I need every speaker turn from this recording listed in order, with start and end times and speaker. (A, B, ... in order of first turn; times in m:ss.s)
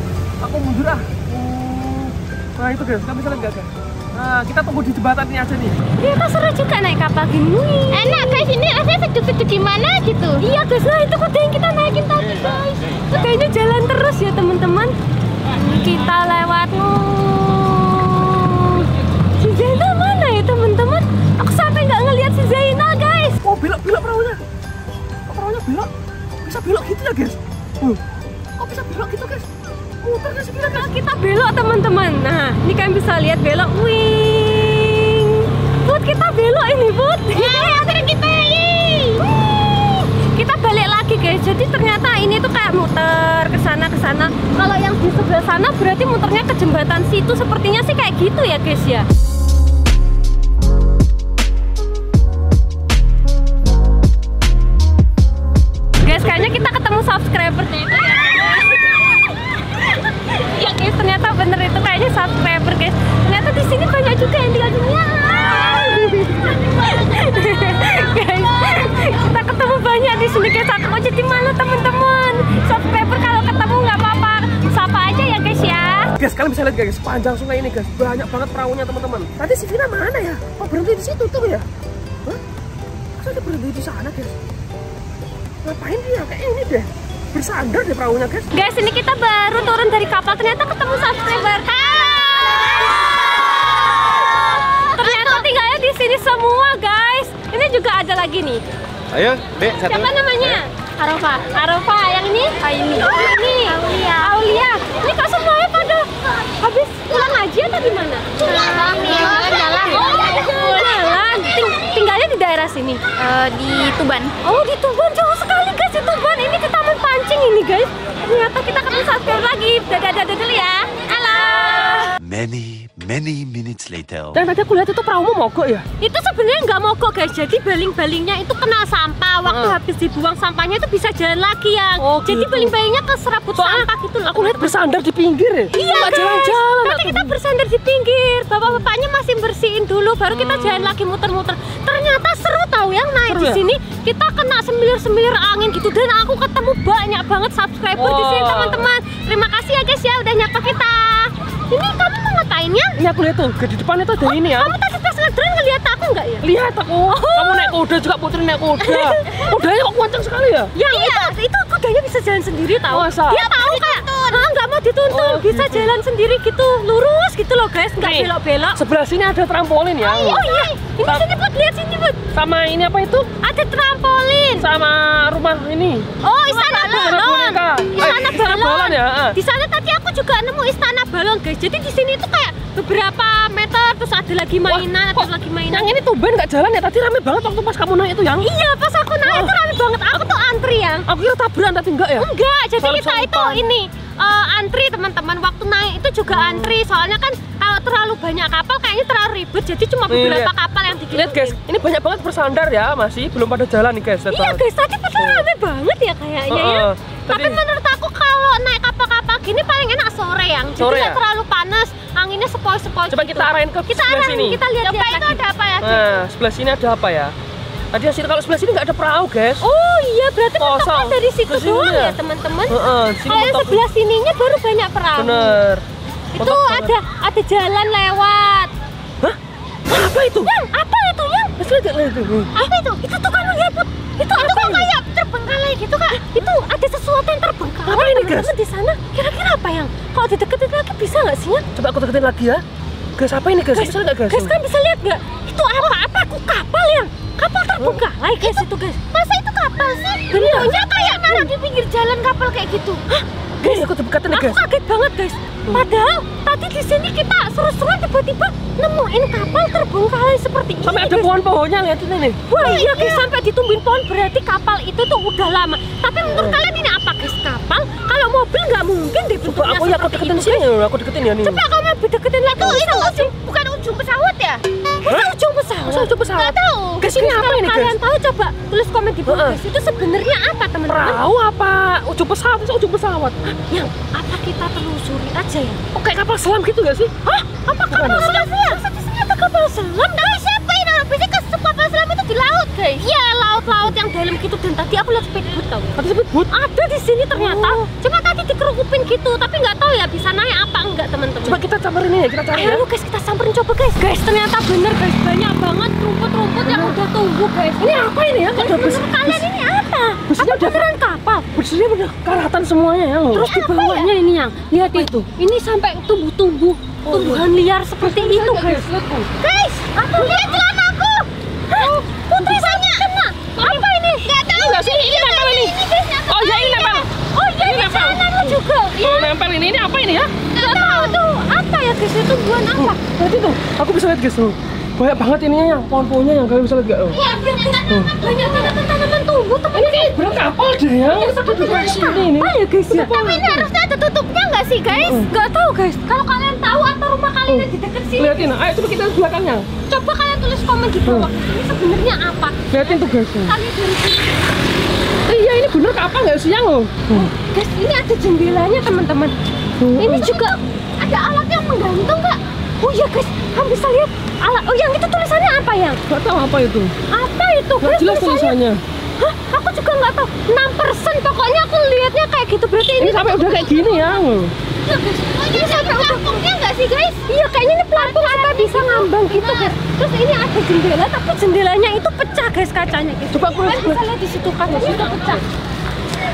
0:00.4-0:05.8 A
0:06.0-0:08.5 B
0:07.9-0:10.4 C
0:10.4-0:14.9 B
0:15.5-0:23.4 B
0:23.4-0:24.4 A
0:25.3-0:25.9 A
0:26.4-0:28.0 A
0:28.6-0:29.5 A
0:30.0-0:30.9 A
0:30.7-0:38.0 B
0:37.3-0:39.2 C
0:39.2-0:49.1 B
0:56.0-1:16.1 B
1:16.2-1:21.6 A
1:23.2-1:24.4 A
1:25.6-1:28.5 A
1:28.5-1:38.6 B
1:35.0-1:35.4 C
1:39.6-1:46.0 B
1:46.6-1:53.0 B
1:48.4-1:51.2 C
1:53.2-1:54.3 C
1:54.4-2:02.2 B
2:02.2-2:04.4 D
2:04.3-2:05.8 A
2:06.0-2:14.8 B
2:09.4-2:09.8 A
2:12.0-2:12.7 A
2:13.6-2:17.3 A
2:15.7-2:33.0 B
2:20.3-2:21.0 A
2:23.2-2:23.6 A
2:28.0-2:28.9 A
2:33.0-2:34.7 A
2:34.2-2:36.5 B
2:36.4-2:40.7 A
2:37.1-2:37.7 B
2:38.8-2:39.5 B
2:40.7-2:48.8 B
2:40.8-2:41.3 C
2:42.9-2:43.4 A
2:43.4-2:44.5 C
2:45.1-2:45.9 A
2:48.0-2:50.4 A
2:50.0-2:52.2 B
2:50.2-2:50.7 C
2:52.3-2:53.3 A
2:53.4-2:54.7 B
2:54.6-2:56.1 A
2:56.2-3:05.9 B
2:56.6-2:59.4 A
3:04.7-3:08.4 A
3:08.4-3:11.0 B
3:09.2-3:09.5 A
3:11.1-3:12.3 A
3:12.2-3:21.6 B
3:12.8-3:13.7 A
3:16.3-3:16.8 A
3:20.1-3:20.5 A
3:21.1-3:24.6 A
3:24.3-3:35.4 B
3:25.2-3:25.5 A
3:26.5-3:27.6 A
3:30.8-3:31.2 A
3:33.1-3:34.6 A
3:34.8-3:36.2 C
3:35.8-3:37.3 A
3:37.9-3:39.6 A
3:39.6-3:45.6 B
3:40.6-3:42.2 A
3:42.7-3:43.8 A
3:45.2-3:45.8 A
3:46.3-3:48.7 B
3:46.4-3:46.9 A
3:49.2-3:50.5 A
3:50.4-3:51.5 B
3:51.6-3:52.5 A
3:52.6-3:53.0 C
3:52.6-3:55.0 B
3:54.3-3:56.2 C
3:56.1-4:01.6 B
3:57.8-3:58.5 A
4:01.7-4:02.6 A
4:03.2-4:04.5 A
4:03.7-4:09.0 B
4:08.4-4:13.0 C
4:10.3-4:11.5 B
4:13.1-4:21.3 B
4:13.6-4:14.6 A
4:20.8-4:22.8 A
4:22.5-4:30.6 B
4:22.6-4:23.2 C
4:26.3-4:26.6 A
4:29.4-4:31.6 A
4:31.4-4:33.3 B
4:32.6-4:34.6 C
4:35.0-4:36.3 B
4:35.8-4:37.9 A
4:36.3-4:37.0 C
4:37.0-4:41.2 B
4:39.3-4:39.6 A
4:40.9-4:43.6 A
4:43.7-4:45.8 B
4:45.9-4:47.1 A
4:47.2-4:50.2 B
4:47.9-4:48.3 A
4:50.2-4:53.0 C
4:53.0-5:01.6 B
4:56.0-4:56.5 A
4:57.3-4:57.8 A
5:01.4-5:02.8 A
5:02.5-5:11.4 B
5:06.6-5:07.0 A
5:07.8-5:09.5 A
5:10.2-5:10.9 A
5:11.5-5:13.5 A
5:13.3-5:18.9 B
5:13.5-5:14.1 C
5:14.8-5:15.2 A
5:17.0-5:17.4 A
5:18.0-5:19.3 A
5:19.4-5:20.5 B
5:19.7-5:21.3 C
5:21.7-5:24.3 B
5:21.8-5:22.6 A
5:22.6-5:23.1 C
5:24.2-5:27.0 C
5:24.5-5:25.7 A
5:25.1-5:25.6 B
5:26.3-5:27.1 A
5:26.4-5:29.3 B
5:27.6-5:30.4 A
5:30.5-5:31.2 C
5:30.6-5:33.0 B
5:32.8-5:37.2 A
5:37.1-5:40.5 B
5:37.9-5:38.1 A
5:39.7-5:43.7 A
5:41.1-5:43.1 B
5:43.1-5:45.2 C
5:44.9-5:45.3 A
5:45.1-5:48.5 B
5:47.5-5:49.7 A
5:49.9-5:54.4 B
5:52.7-5:53.5 A
5:55.3-5:57.3 A
5:57.1-5:59.3 B
5:59.8-6:00.4 A
6:00.0-6:06.0 B
6:06.1-6:06.9 A
6:07.1-6:08.5 B
6:07.8-6:08.8 A
6:09.2-6:13.9 B
6:13.0-6:14.5 A
6:14.8-6:16.3 B
6:15.4-6:17.2 C
6:17.2-6:25.4 B
6:17.9-6:19.7 C
6:23.3-6:24.0 A
6:24.7-6:25.4 A